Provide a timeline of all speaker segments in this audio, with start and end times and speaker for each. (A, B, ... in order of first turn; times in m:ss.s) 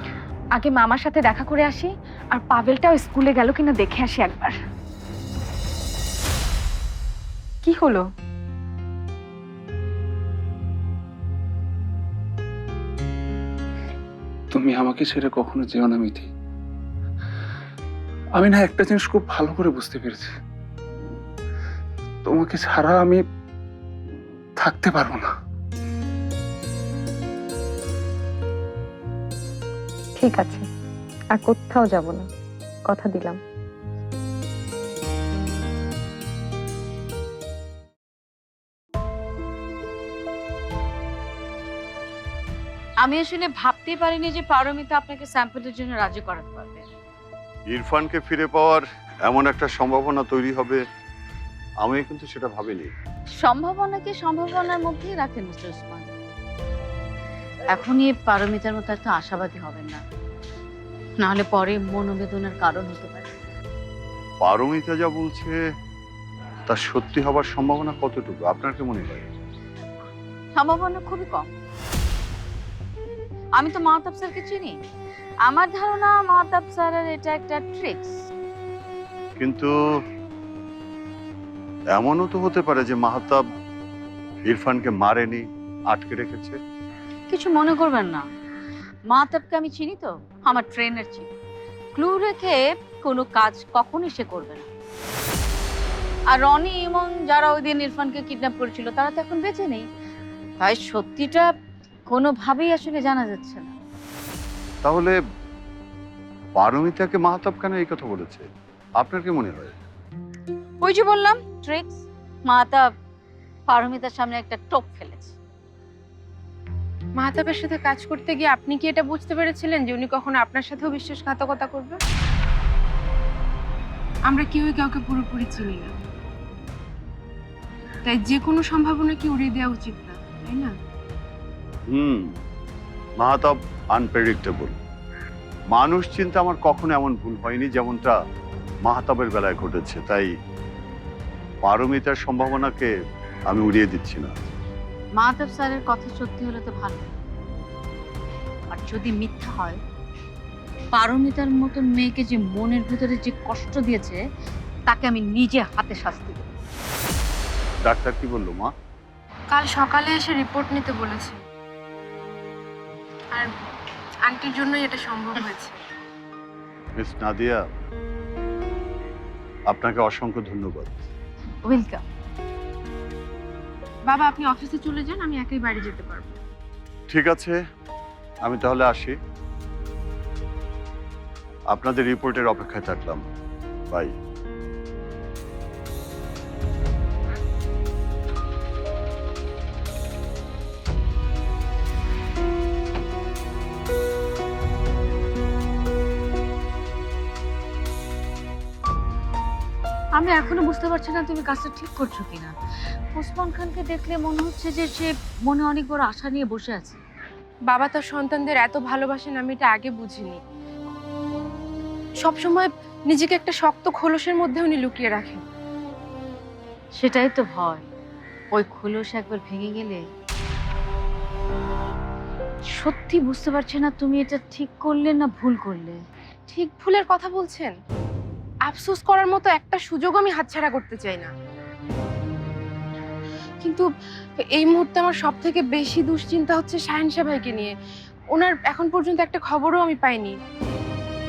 0:00.6-0:04.6 A
0:07.6-0:08.0 A
0:14.5-0:16.3 B
0:18.4-0:20.3 B
0:22.2-0:23.2 B
0:24.6-0:25.3 B
0:30.2-0:30.6 A
0:31.3-0:32.3 A
0:32.9-0:33.4 A
0:43.0-0:46.8 C
0:47.7-0:50.8 D
0:51.8-0:52.9 D
0:53.4-0:56.1 C
0:57.7-1:00.0 C
1:01.2-1:03.3 C
1:04.4-1:05.6 D
1:06.7-1:09.2 D
1:10.5-1:11.5 C
1:13.6-1:14.8 C
1:15.5-1:18.2 C
1:19.4-1:19.7 D
1:22.0-1:23.4 D
1:24.5-1:26.6 D
1:27.3-1:28.2 C
1:29.1-1:31.3 C
1:32.0-1:34.7 C
1:36.3-1:39.9 C
1:40.6-1:41.5 C
1:42.1-1:43.7 C
1:44.8-1:45.2 D
1:46.6-1:48.5 D
1:49.0-1:49.7 D
1:50.8-1:52.9 C
1:53.7-1:55.3 C
1:57.2-2:02.0 E
2:04.3-2:05.9 E
2:08.1-2:10.7 E
2:11.9-2:12.3 D
2:13.2-2:14.8 D
2:15.7-2:18.2 D
2:18.9-2:20.3 D
2:21.6-2:22.9 D
2:23.5-2:24.5 D
2:25.2-2:27.1 C
2:28.7-2:29.8 C
2:30.9-2:34.2 C
2:34.9-2:36.4 C
2:37.8-2:38.7 D
2:39.5-2:41.4 E
2:44.2-2:45.8 E
2:47.0-2:47.6 D
2:49.7-2:50.9 D
2:51.7-2:52.0 C
2:54.1-2:56.4 E
2:57.1-2:57.6 D
2:58.4-2:59.2 D
3:01.7-3:03.2 D
3:20.1-3:22.5 C
3:23.2-3:27.0 C
3:27.7-3:30.4 E
3:32.2-3:35.4 E
3:37.0-3:37.9 C
3:38.5-3:40.0 C
3:42.8-3:46.0 C
3:46.5-3:47.7 E
3:48.7-3:51.3 E
3:54.4-3:57.7 E
3:58.3-4:00.3 E